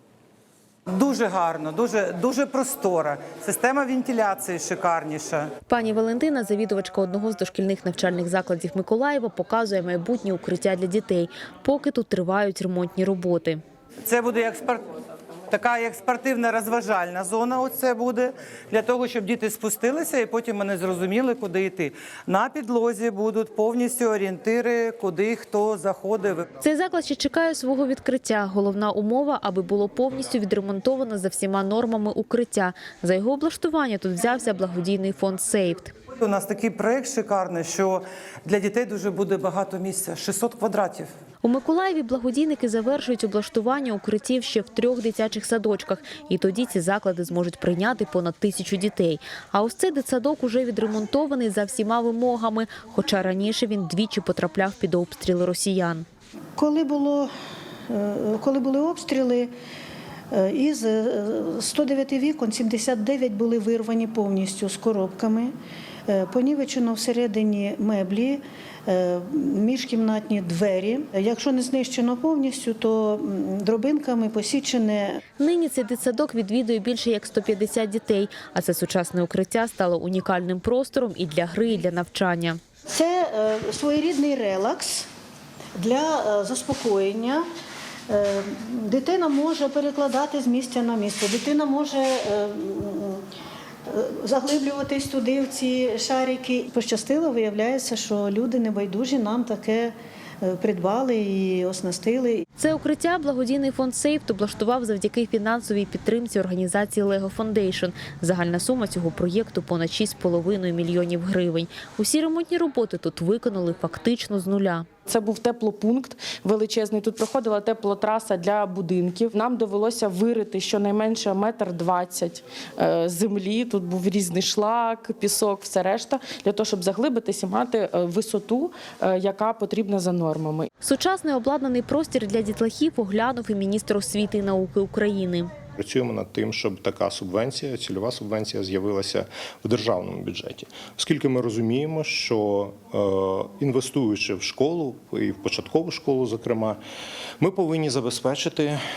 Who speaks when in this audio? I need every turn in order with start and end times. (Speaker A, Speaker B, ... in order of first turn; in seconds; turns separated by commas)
Speaker A: 0.9-5.5, Speaker B: 5.7-13.6, Speaker A: 14.1-14.8, Speaker A: 15.5-26.5, Speaker B: 26.6-35.9, Speaker A: 36.2-41.1, Speaker B: 41.4-56.1, Speaker C: 56.6-57.3, Speaker C: 57.9-59.5, Speaker C: 60.3-65.5, Speaker C: 66.1-75.2, Speaker B: 75.4-82.6, Speaker C: 82.9-85.1, Speaker C: 85.8-87.4, Speaker C: 88.1-93.2, Speaker C: 93.9-102.4, Speaker B: 102.6-114.9, Speaker D: 115.1-130.7, Speaker B: 130.8-135.5, Speaker E: 135.8-146.8, Speaker E: 147.4-148.8